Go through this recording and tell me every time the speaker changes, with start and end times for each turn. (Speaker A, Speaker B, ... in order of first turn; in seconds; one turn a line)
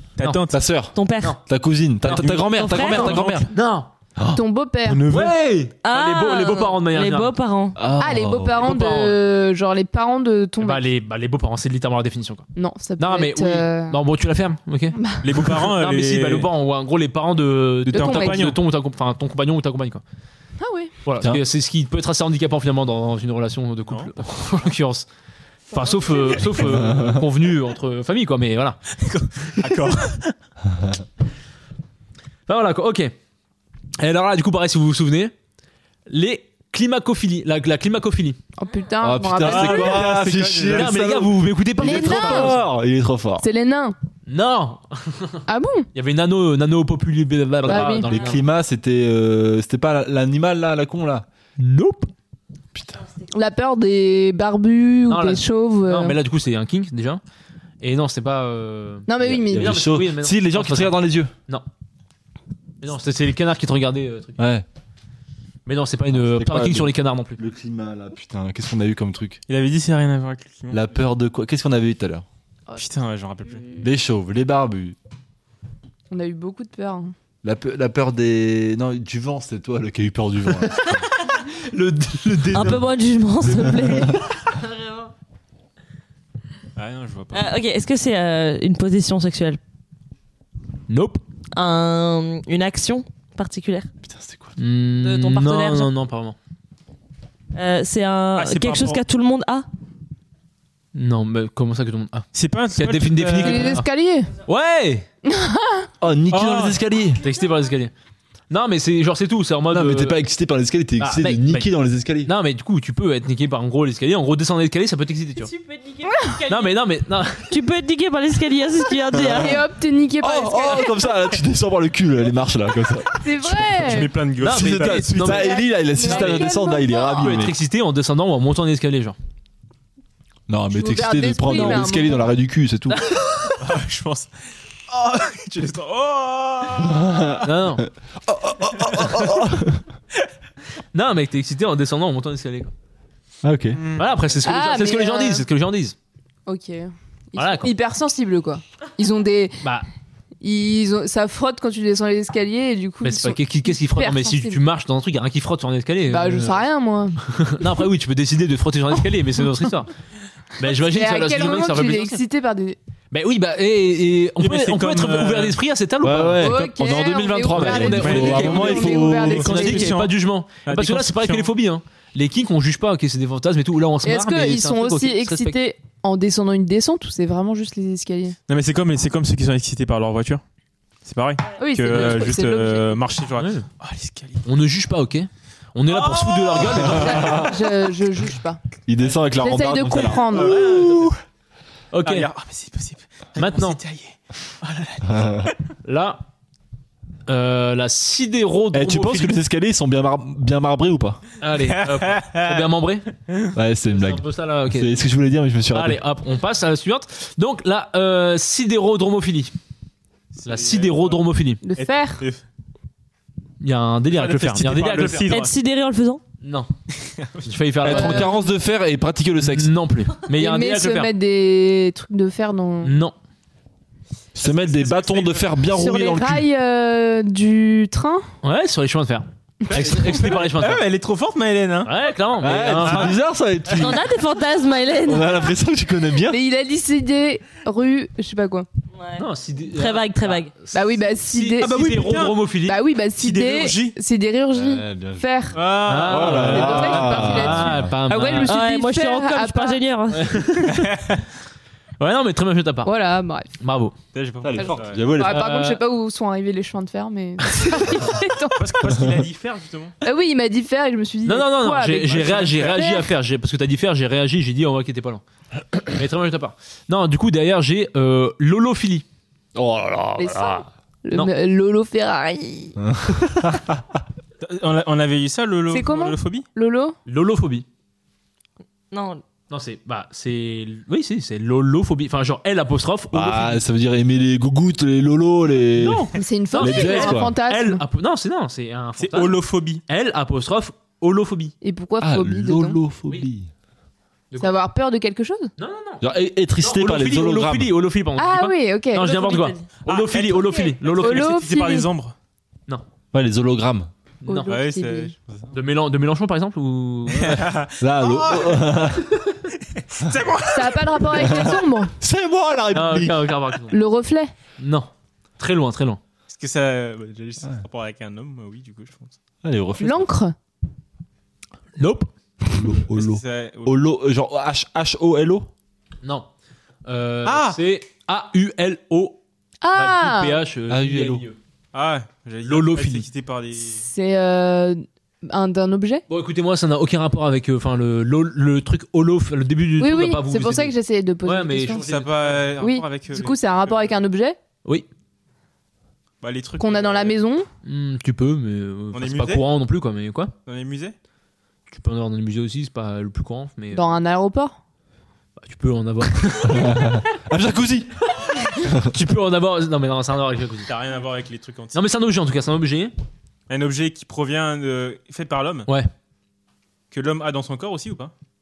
Speaker A: 0.2-0.6
Speaker B: 0.5-3.5
Speaker C: 0.9-1.3
Speaker D: 2.0-3.9
Speaker A: 2.1-3.5
Speaker C: 2.5-3.2
Speaker E: 4.3-5.1
Speaker A: 4.8-5.3
Speaker D: 5.1-7.3
Speaker C: 5.8-7.8
Speaker B: 7.8-8.6
Speaker E: 8.0-10.8
Speaker D: 8.6-9.2
Speaker D: 10.6-12.4
Speaker E: 12.6-14.0
Speaker D: 13.0-20.0
Speaker E: 14.9-15.5
Speaker A: 15.2-16.5
Speaker A: 17.9-18.6
Speaker E: 17.9-18.5
Speaker E: 20.6-20.9
Speaker D: 21.1-25.1
Speaker D: 25.7-28.8
Speaker A: 25.8-26.2
Speaker B: 26.6-27.2
Speaker A: 29.0-30.3
Speaker D: 32.5-33.1
Speaker D: 34.0-35.3
Speaker D: 36.1-38.4
Speaker E: 38.6-40.1
Speaker B: 39.0-43.5
Speaker A: 39.4-41.0
Speaker D: 40.7-42.6
Speaker E: 41.8-42.5
Speaker E: 43.4-44.0
Speaker D: 44.3-45.4
Speaker E: 45.5-45.9
Speaker D: 45.9-48.4
Speaker B: 47.6-51.3
Speaker E: 47.6-48.1
Speaker D: 51.6-52.1
Speaker B: 52.7-53.0
Speaker E: 53.3-56.1
Speaker D: 55.1-57.2
Speaker D: 57.8-61.0
Speaker E: 59.1-59.8
Speaker B: 59.2-61.3
Speaker D: 62.8-64.4
Speaker B: 64.4-64.7
Speaker D: 65.7-67.4
Speaker B: 66.1-69.4
Speaker A: 69.5-70.8
Speaker B: 70.7-72.2
Speaker A: 72.7-73.6
Speaker B: 73.8-75.0
Speaker E: 76.1-77.1
Speaker B: 77.4-81.0
Speaker D: 80.6-82.8
Speaker C: 82.5-85.1
Speaker A: 86.8-87.5
Speaker C: 87.3-89.6
Speaker D: 90.9-91.2
Speaker C: 91.5-93.9
Speaker B: 94.0-94.5
Speaker D: 94.6-96.3
Speaker C: 95.0-95.9
Speaker C: 97.5-99.7
Speaker A: 98.3-99.0
Speaker D: 100.9-103.8
Speaker A: 102.3-103.8
Speaker E: 103.4-104.3
Speaker D: 104.5-105.0
Speaker E: 105.2-105.9
Speaker B: 106.0-107.2
Speaker A: 106.3-106.8
Speaker D: 107.2-107.9
Speaker D: 108.5-110.2
Speaker B: 109.7-112.3
Speaker D: 111.0-111.7
Speaker D: 112.2-115.5
Speaker C: 115.4-116.7
Speaker D: 116.5-117.5
Speaker C: 117.5-119.6
Speaker B: 119.1-119.6
Speaker E: 119.3-121.1
Speaker B: 120.2-127.5
Speaker E: 123.2-124.2
Speaker A: 123.8-125.5
Speaker D: 124.4-129.2
Speaker E: 125.3-127.4
Speaker B: 130.5-133.0
Speaker E: 130.7-132.3
Speaker D: 131.5-131.8
Speaker D: 132.9-133.3
Speaker A: 133.6-134.3
Speaker A: 134.9-137.4
Speaker B: 136.8-137.4
Speaker D: 137.4-137.8
Speaker B: 138.2-139.8
Speaker D: 140.9-142.7
Speaker B: 143.4-143.8
Speaker A: 143.7-144.3
Speaker D: 144.0-145.9
Speaker E: 144.4-145.4
Speaker E: 146.4-149.6
Speaker D: 147.3-147.7
Speaker E: 150.4-154.6
Speaker D: 153.0-156.6
Speaker E: 156.1-157.2
Speaker D: 157.3-159.9
Speaker D: 160.6-162.2
Speaker E: 160.8-162.8
Speaker D: 163.1-175.6
Speaker A: 164.4-165.6
Speaker B: 166.0-169.7
Speaker E: 166.4-169.9
Speaker A: 167.8-170.1
Speaker A: 170.6-171.5
Speaker E: 174.0-178.4
Speaker A: 178.5-180.4
Speaker A: 181.0-184.4
Speaker E: 181.6-183.0
Speaker D: 183.4-183.7
Speaker D: 184.4-187.5
Speaker A: 185.9-186.9
Speaker E: 186.8-188.6
Speaker B: 186.9-187.6
Speaker B: 188.9-190.5
Speaker E: 189.4-190.6
Speaker A: 190.3-191.2
Speaker D: 190.3-191.1
Speaker D: 191.9-192.3
Speaker A: 192.0-195.5
Speaker D: 193.4-193.8
Speaker B: 195.0-195.5
Speaker D: 195.8-196.2
Speaker D: 197.3-199.4
Speaker B: 198.7-201.2
Speaker D: 201.4-203.1
Speaker A: 201.6-202.7
Speaker B: 203.5-206.0
Speaker D: 203.9-205.0
Speaker D: 205.7-209.5
Speaker A: 210.3-211.2
Speaker D: 210.4-211.6
Speaker E: 211.6-212.2
Speaker A: 211.8-212.4
Speaker D: 213.6-215.3
Speaker A: 214.1-215.5
Speaker C: 215.3-216.2
Speaker D: 216.4-216.7
Speaker A: 217.0-217.9
Speaker D: 217.4-218.3
Speaker B: 217.8-219.7
Speaker E: 217.9-218.4
Speaker D: 219.4-221.1
Speaker E: 220.3-222.9
Speaker D: 222.8-223.1
Speaker B: 224.3-226.5
Speaker A: 224.4-225.6
Speaker E: 225.7-228.2
Speaker D: 228.4-230.8
Speaker A: 229.7-231.9
Speaker D: 231.8-233.2
Speaker B: 232.4-234.1
Speaker A: 232.8-233.1
Speaker C: 233.7-235.4
Speaker B: 235.0-236.4
Speaker E: 236.3-238.7
Speaker C: 239.0-240.5
Speaker D: 239.2-242.8
Speaker E: 240.7-241.9
Speaker A: 241.6-242.4
Speaker E: 242.6-245.6
Speaker A: 243.2-244.0
Speaker B: 244.5-245.3
Speaker A: 245.5-246.4
Speaker D: 245.8-248.6
Speaker B: 245.9-247.9
Speaker E: 246.2-249.8
Speaker C: 248.4-250.3
Speaker D: 250.1-250.9
Speaker A: 250.7-251.2
Speaker D: 252.0-252.9
Speaker E: 252.8-253.5
Speaker D: 253.6-253.9
Speaker A: 254.1-255.1
Speaker B: 254.4-255.5
Speaker E: 254.6-259.0
Speaker D: 255.2-255.8
Speaker A: 258.6-259.9
Speaker E: 260.0-263.1
Speaker D: 261.2-265.2
Speaker A: 262.2-262.7
Speaker D: 265.8-269.0
Speaker B: 269.5-270.6
Speaker E: 270.2-272.8
Speaker B: 272.8-273.8
Speaker A: 274.4-276.5
Speaker E: 275.7-276.9
Speaker D: 277.1-277.6
Speaker C: 278.9-279.2
Speaker D: 279.5-283.6
Speaker B: 283.1-287.3
Speaker D: 285.8-291.5
Speaker E: 286.1-287.8
Speaker A: 289.0-289.8
Speaker E: 291.6-292.8
Speaker B: 292.0-293.5
Speaker E: 294.4-295.5
Speaker D: 295.6-296.1
Speaker B: 296.0-297.7
Speaker D: 296.6-301.4
Speaker E: 298.2-299.5
Speaker C: 299.2-299.6
Speaker A: 299.8-302.1
Speaker E: 301.0-301.9
Speaker B: 303.1-303.9
Speaker E: 304.2-305.1
Speaker D: 304.2-304.5
Speaker A: 304.5-305.5
Speaker D: 305.5-307.4
Speaker A: 307.1-308.8
Speaker B: 307.8-309.1
Speaker A: 309.8-311.0
Speaker E: 310.5-311.9
Speaker B: 311.2-313.3
Speaker D: 312.7-313.8
Speaker E: 313.7-314.3
Speaker D: 314.6-316.0
Speaker A: 316.3-319.1
Speaker B: 319.4-320.1
Speaker E: 319.8-320.3
Speaker D: 321.8-322.1
Speaker B: 322.5-325.5
Speaker A: 322.9-323.7
Speaker D: 326.9-329.2
Speaker A: 327.2-327.6
Speaker E: 329.6-330.4
Speaker D: 329.7-331.4
Speaker B: 330.7-331.2
Speaker A: 331.7-333.8
Speaker D: 332.4-333.1
Speaker E: 333.8-336.0
Speaker D: 336.1-342.5
Speaker E: 339.8-341.8
Speaker A: 341.7-344.0
Speaker E: 342.6-344.4
Speaker A: 346.2-347.2
Speaker E: 346.6-347.5
Speaker D: 347.6-350.3
Speaker A: 348.9-349.4
Speaker A: 350.4-350.9
Speaker D: 351.7-353.9
Speaker E: 353.7-354.6
Speaker D: 355.4-356.8
Speaker B: 356.4-358.0
Speaker D: 358.2-360.7
Speaker A: 360.7-361.8
Speaker D: 361.7-362.9
Speaker A: 363.5-365.7
Speaker A: 366.9-368.1